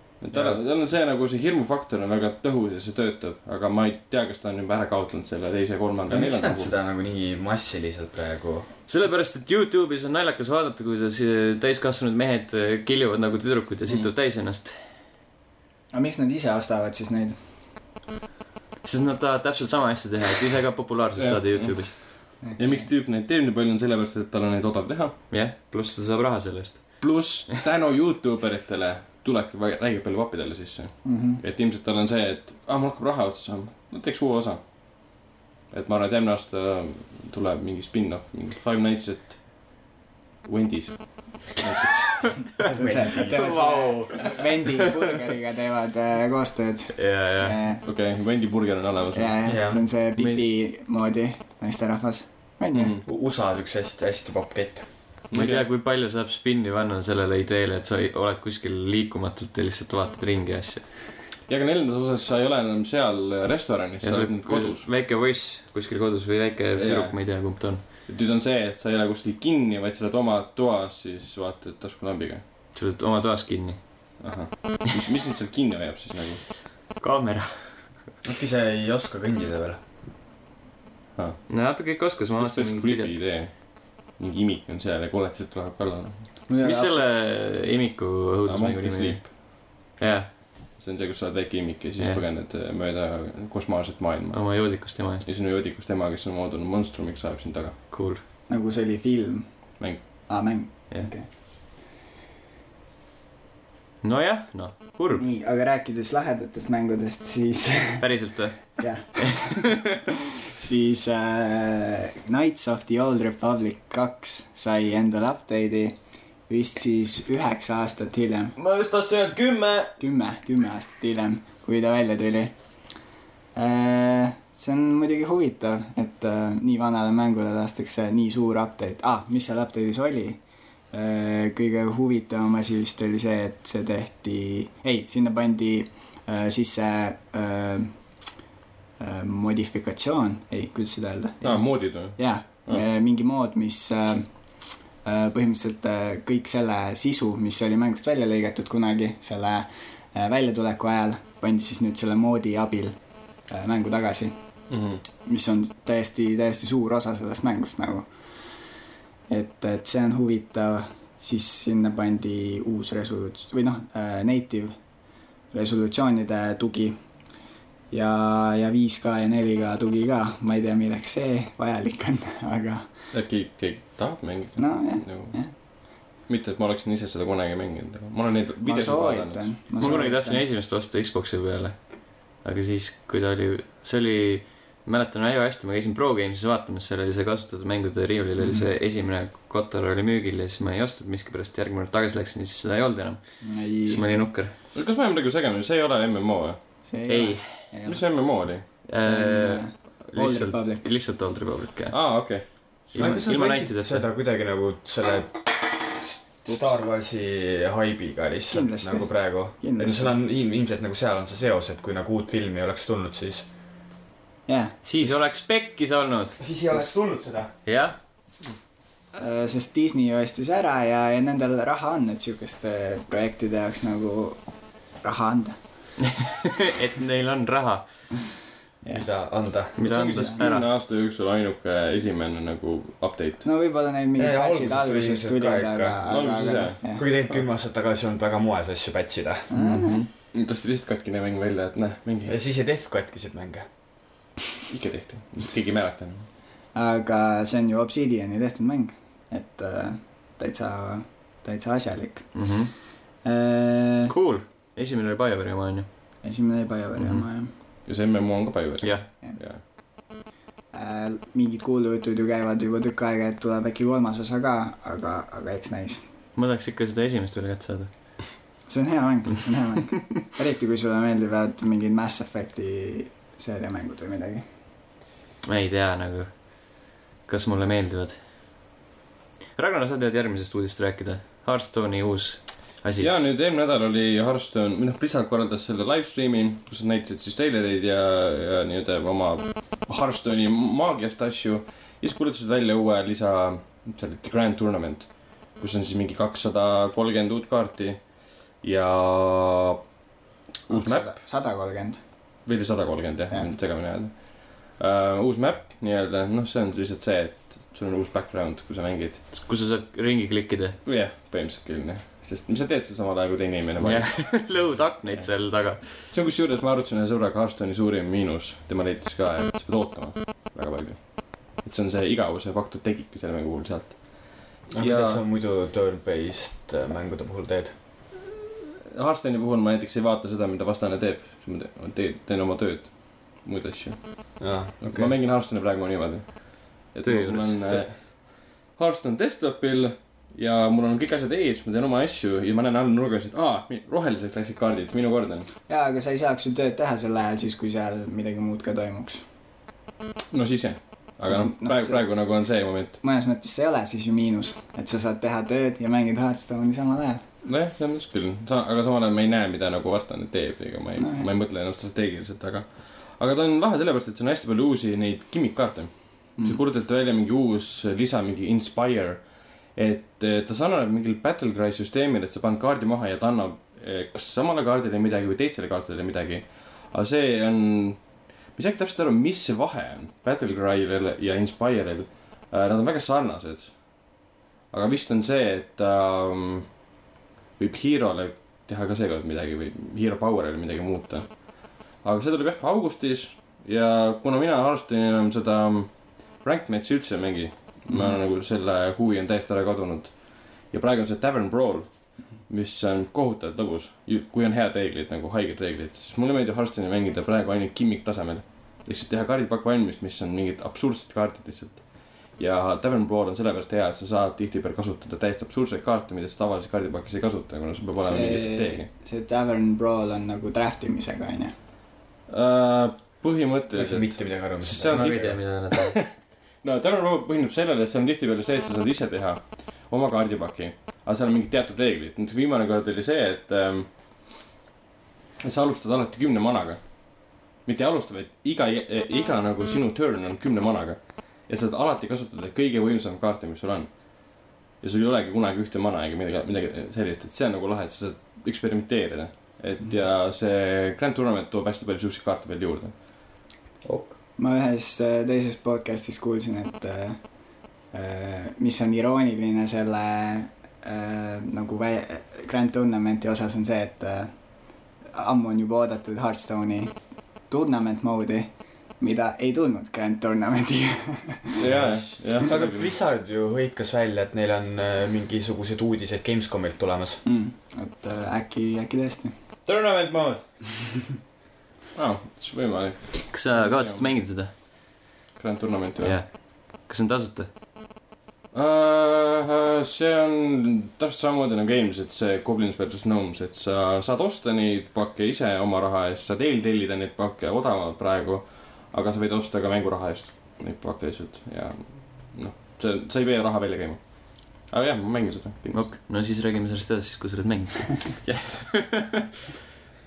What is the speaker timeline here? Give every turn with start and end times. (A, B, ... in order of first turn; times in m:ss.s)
0:00.2-0:06.7 A
0:00.3-0:00.6 B
0:06.1-0:08.7 B
0:08.9-0:14.8 C
0:15.9-0:17.4 D
0:18.8-0:22.0 C
0:21.2-0:25.2 A
0:22.4-0:22.9 D
0:25.3-0:27.4 C
0:27.0-0:39.8 A
0:31.0-0:31.4 D
0:40.4-0:42.5 A
0:42.6-0:47.8 D
0:42.6-0:43.6 B
0:43.2-0:44.9 C
0:47.0-0:47.6 C
0:47.8-0:49.5 A
0:49.2-0:53.0 D
0:49.5-0:49.9 B
0:50.2-0:50.4 C
0:52.7-0:53.0 A
0:53.0-0:54.9 B
0:55.3-0:55.7 A
0:55.3-1:00.9 C
1:01.5-1:04.9 A
1:04.0-1:07.8 C
1:06.8-1:12.4 A
1:12.7-1:14.2 C
1:14.2-1:16.5 A
1:17.0-1:18.0 C
1:18.2-1:19.8 B
1:21.2-1:21.5 A
1:21.5-1:23.2 C
1:22.4-1:26.3 A
1:26.5-1:27.0 D
1:26.6-1:29.4 C
1:28.5-1:29.3 A
1:30.0-1:30.3 C
1:30.8-1:37.8 A
1:34.3-1:35.3 C
1:37.9-1:38.2 C
1:38.5-1:41.3 D
1:39.8-1:40.0 A
1:44.0-1:45.2 C
1:45.2-1:58.6 D
1:48.0-1:49.6 C
1:58.6-2:00.0 C
2:00.0-2:02.8 D
2:03.5-2:18.2 D
2:19.0-2:38.5 D
2:21.4-2:22.8 A
2:34.7-2:35.0 A
2:39.3-2:52.9 D
2:53.1-2:59.5 A
2:54.6-2:55.5 D
2:58.6-3:00.4 D
2:59.8-3:14.6 C
3:08.4-3:08.7 D
3:13.4-3:14.2 D
3:14.7-3:16.7 A
3:16.8-3:18.0 D
3:17.1-3:17.7 C
3:17.8-3:18.7 A
3:18.7-3:20.9 D
3:18.8-3:24.1 C
3:21.9-3:23.1 A
3:23.0-3:33.5 B
3:26.5-3:26.8 A
3:28.5-3:30.1 D
3:34.5-3:35.2 D
3:34.8-3:36.5 C
3:36.4-3:37.5 B
3:37.6-3:38.0 C
3:39.2-3:45.6 D
3:46.4-3:47.9 C
3:48.9-3:49.8 B
3:49.8-3:50.7 C
3:49.8-3:53.5 A
3:50.1-3:50.4 D
3:53.4-3:57.0 D
3:54.2-3:56.0 B
3:56.1-3:57.4 A
3:56.8-3:59.5 B
3:59.5-4:00.0 D
3:59.6-4:00.1 C
4:00.3-4:02.4 A
4:02.3-4:03.7 B
4:04.7-4:06.3 A
4:06.7-4:12.6 D
4:12.3-4:12.7 C
4:13.2-4:14.1 D
4:14.1-4:15.9 C
4:16.2-4:17.5 D
4:17.0-4:17.2 C
4:17.9-4:19.6 A
4:18.8-4:19.1 C
4:20.7-4:26.0 D
4:26.4-4:28.3 C
4:28.7-4:34.4 D
4:35.4-4:38.2 C
4:39.6-4:43.1 C
4:43.0-4:59.8 A
5:00.7-5:02.0 D
5:00.7-5:01.2 A
5:02.5-5:09.3 A
5:09.3-5:10.8 C
5:10.8-5:25.2 A
5:13.8-5:16.1 C
5:24.7-5:27.8 B
5:28.9-5:45.5 A
5:34.4-5:35.2 B
5:37.0-5:37.6 C
5:45.7-5:49.2 D
5:50.3-5:53.0 A
5:51.3-5:57.2 D
5:57.4-6:26.8 A
6:01.0-6:01.3 D
6:27.6-6:58.9 A
6:58.0-7:01.5 D
7:02.3-7:14.0 A
7:03.7-7:05.4 B
7:04.9-7:06.0 C
7:15.4-7:33.0 A
7:33.8-7:34.1 B
7:34.4-7:51.7 D
7:51.6-7:52.9 A
7:52.4-7:57.2 B
7:57.2-7:59.3 D
7:59.7-8:00.4 C
8:02.0-8:04.1 A
8:03.3-8:04.5 C
8:05.4-8:06.2 A
8:06.0-8:07.5 C
8:08.5-8:25.9 A
8:25.7-8:29.2 C
8:28.2-8:29.1 A